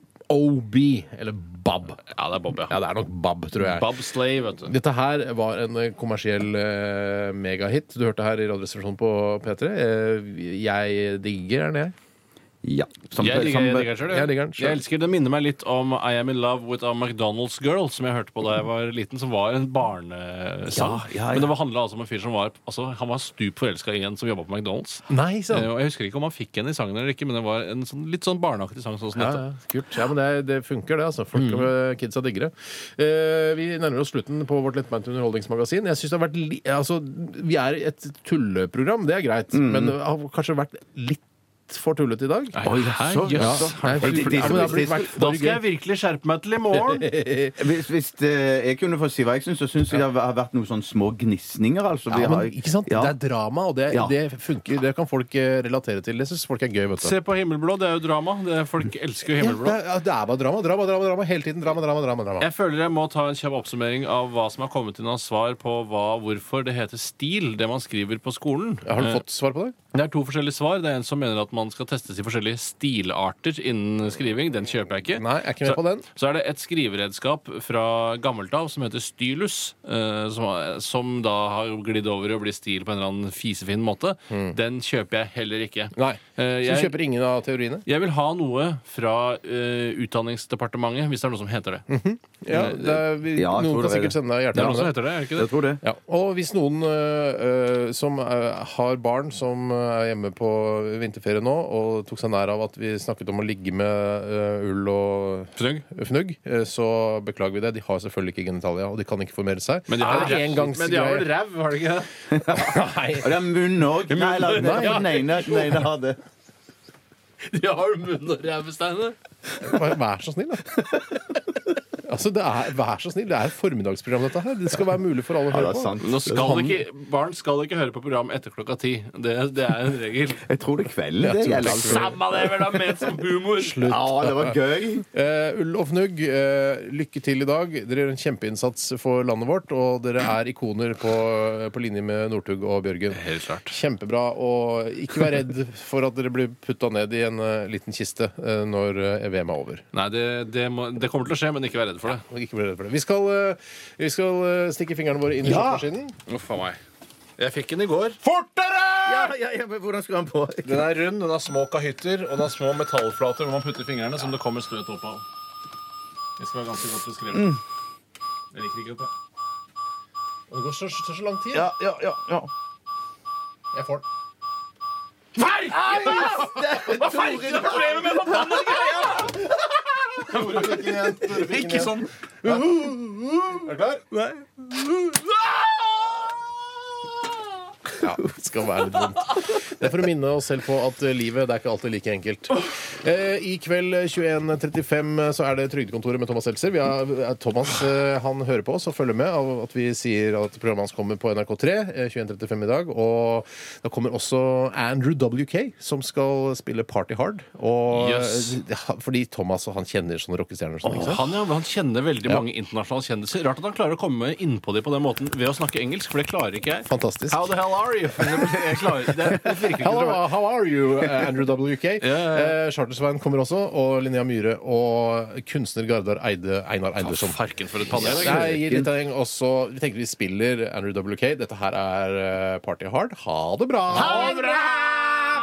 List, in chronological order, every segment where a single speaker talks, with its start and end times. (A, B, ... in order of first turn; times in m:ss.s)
0:00.3-0:02.0 A
0:02.1-0:02.7 B
0:02.6-0:03.9 A
0:03.6-0:04.7 B
0:04.6-0:11.9 A
0:12.6-0:13.9 C
0:13.2-0:29.4 B
0:14.1-0:14.8 A
0:20.7-0:21.5 C
0:25.1-0:25.7 A
0:29.2-0:42.6 A
0:31.3-0:31.7 B
0:39.5-0:40.0 C
0:42.5-0:47.1 B
0:42.6-0:45.1 C
0:43.3-0:45.6 A
0:46.7-0:47.6 A
0:47.6-0:53.1 C
0:52.1-0:57.2 A
0:53.9-0:54.1 C
0:57.0-0:59.8 B
0:59.4-1:02.5 A
1:02.4-1:09.2 B
1:08.8-1:09.8 A
1:09.9-1:27.0 B
1:15.1-1:16.0 A
1:24.3-1:24.6 A
1:25.9-1:27.8 A
1:27.8-1:31.8 B
1:31.9-1:34.9 A
1:32.5-1:32.8 B
1:32.5-1:34.2 C
1:34.5-1:35.5 B
1:35.3-1:35.8 C
1:35.8-1:51.3 A
1:45.6-1:45.8 B
1:49.9-1:52.3 B
1:52.4-1:56.2 C
1:52.5-1:53.4 A
1:54.1-1:55.8 B
1:54.5-1:55.2 A
1:57.5-1:59.8 B
1:59.6-2:00.8 A
2:02.0-2:05.9 A
2:05.5-2:06.8 C
2:06.0-2:10.5 B
2:10.4-2:12.2 C
2:11.2-2:12.2 A
2:11.5-2:13.9 B
2:13.6-2:14.6 A
2:13.8-2:15.0 C
2:15.1-2:29.8 A
2:23.1-2:23.7 B
2:29.9-2:32.2 B
2:32.2-2:36.2 A
2:35.4-2:35.8 C
2:36.3-2:36.8 B
2:37.4-2:38.2 B
2:38.3-2:38.9 A
2:39.0-2:40.8 C
2:40.6-2:45.2 B
2:46.4-2:47.6 B
2:48.5-2:49.1 B
2:50.5-2:51.7 A
2:51.5-2:52.5 C
2:53.7-2:54.0 A
2:55.4-2:59.6 B
2:55.6-2:59.4 C
2:56.6-2:56.9 A
3:00.1-3:03.6 B
3:00.2-3:02.7 A
3:03.5-3:04.0 A
3:04.1-3:05.6 B
3:08.0-3:31.3 A
3:27.9-3:28.6 B
3:30.8-3:40.2 B
3:36.9-3:37.4 A
3:39.8-3:47.4 A
3:42.0-3:42.6 B
3:47.0-3:48.6 B
3:47.9-3:48.9 C
3:48.0-3:54.4 A
3:53.9-3:55.2 B